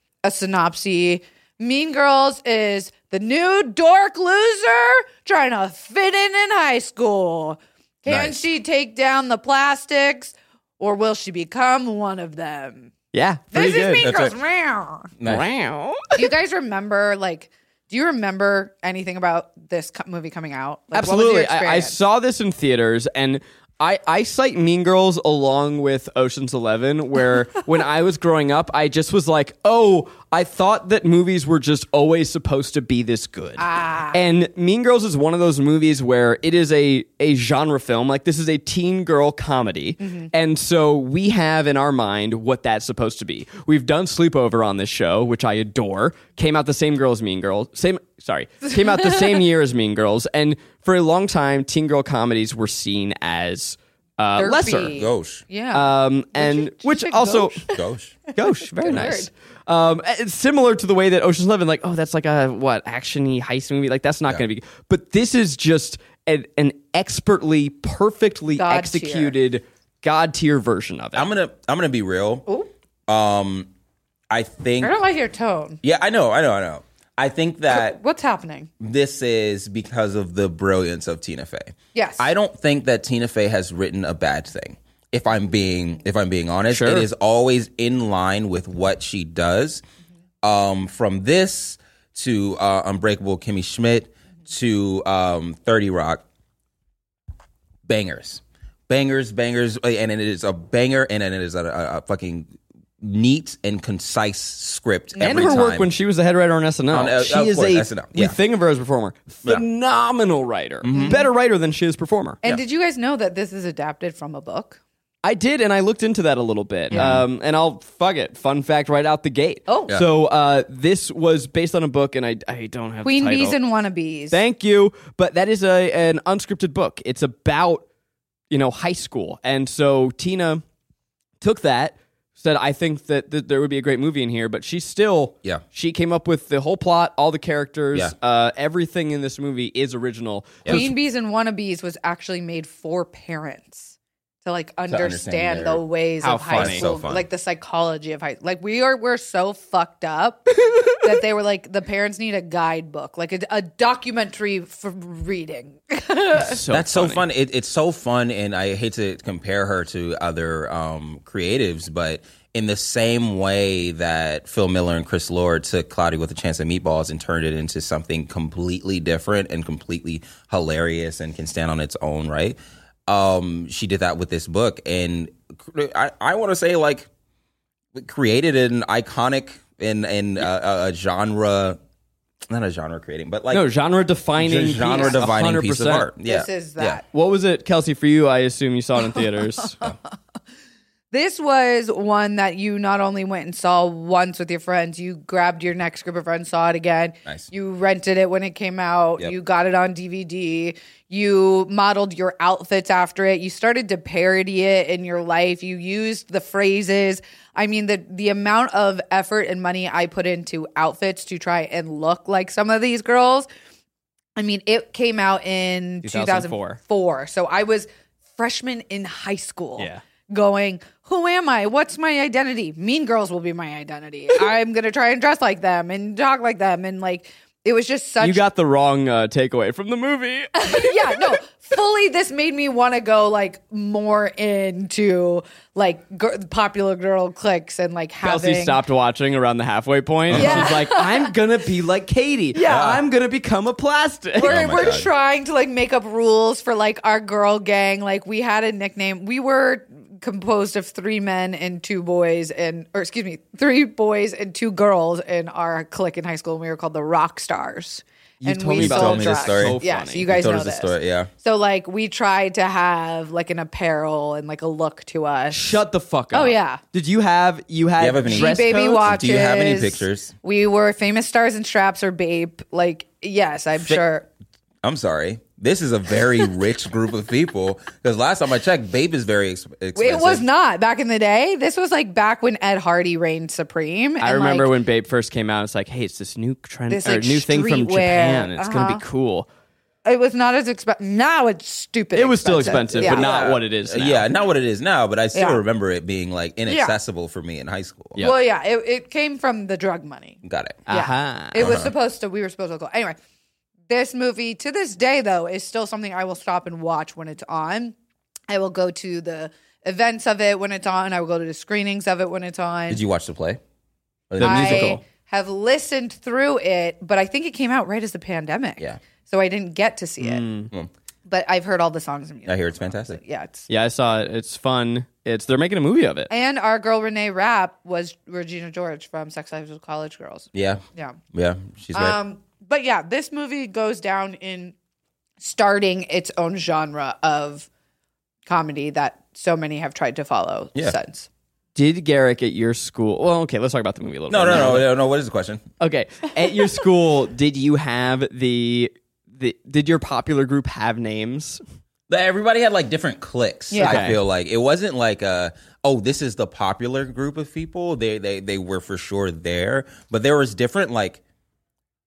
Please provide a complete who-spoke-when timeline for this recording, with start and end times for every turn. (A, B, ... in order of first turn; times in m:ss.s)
0:00.2-0:12.9 A
0:08.1-0:08.4 B
0:13.1-0:14.2 C
0:13.5-0:15.1 A
0:14.0-0:14.3 B
0:15.2-0:15.4 B
0:15.2-0:16.3 C
0:16.2-0:22.0 A
0:20.9-0:54.9 C
0:33.6-0:34.2 A
0:40.0-0:40.3 A
0:54.4-0:57.8 A
0:54.9-0:55.4 B
0:55.7-0:57.7 C
0:57.7-0:58.2 B
0:58.3-1:11.3 C
0:58.8-0:59.3 A
1:08.6-1:09.3 A
1:11.2-1:12.5 B
1:13.1-1:13.7 B
1:14.3-1:14.9 B
1:14.8-1:15.8 A
1:15.8-1:18.0 B
1:17.7-1:18.7 A
1:18.8-1:29.8 B
1:21.9-1:22.3 A
1:26.7-1:27.1 C
1:30.4-1:36.2 B
1:37.9-1:45.9 B
1:45.2-1:52.4 C
1:46.9-1:48.3 B
1:50.8-1:51.2 B
1:50.9-1:51.2 A
1:52.4-1:54.8 A
1:55.2-2:03.6 C
1:56.9-1:57.2 B
1:59.7-2:00.0 A
2:03.0-2:04.4 A
2:04.3-2:07.8 C
2:08.5-2:10.6 C
2:11.4-2:20.9 C
2:20.7-2:36.6 A
2:24.9-2:25.8 B
2:26.2-2:26.8 C
2:26.5-2:27.2 B
2:36.4-2:37.2 C
2:36.7-2:57.1 B
2:57.9-3:01.8 B
3:02.5-3:03.6 B
3:03.5-3:06.1 C
3:04.4-3:07.0 B
3:06.2-3:07.0 A
3:07.1-3:09.8 C
3:09.6-3:09.9 A
3:11.1-3:33.5 A
3:34.4-3:48.4 A
3:36.0-3:36.8 C
3:48.2-3:51.4 C
3:50.6-3:58.8 A
3:58.2-4:04.5 C
4:00.3-4:00.7 B
4:00.3-4:01.3 A
4:02.5-4:03.0 A
4:02.7-4:03.0 B
4:04.4-4:26.8 A
4:04.4-4:05.1 B
4:18.4-4:20.3 C
4:18.8-4:21.3 B
4:25.5-4:29.3 C
4:28.0-4:30.3 B
4:28.3-4:34.3 A
4:34.8-4:40.4 B
4:39.9-4:44.7 A
4:44.2-4:49.5 C
4:46.9-4:49.0 A
4:50.0-4:53.4 A
4:52.1-4:54.3 C
4:53.0-4:58.2 B
4:55.3-4:55.6 A
4:56.7-4:57.0 A
4:58.2-5:03.2 A
5:00.4-5:00.8 B
5:00.9-5:01.8 C
5:01.6-5:01.9 B
5:03.9-5:07.9 A
5:08.5-5:13.0 A
5:12.9-5:13.6 B
5:14.3-5:15.0 B
5:14.4-5:15.0 C
5:14.4-5:20.4 A
5:20.2-5:20.7 C
5:21.3-5:23.7 A
5:22.4-5:23.2 B
5:23.7-5:26.3 C
5:26.3-5:31.2 A
5:30.5-5:32.2 B
5:31.9-5:34.7 A
5:35.4-5:37.7 A
5:38.4-5:41.3 A
5:41.8-5:44.9 C
5:44.3-5:45.6 B
5:45.8-5:51.6 C
5:52.1-6:01.2 B
5:53.7-5:54.0 A
5:53.8-5:54.2 C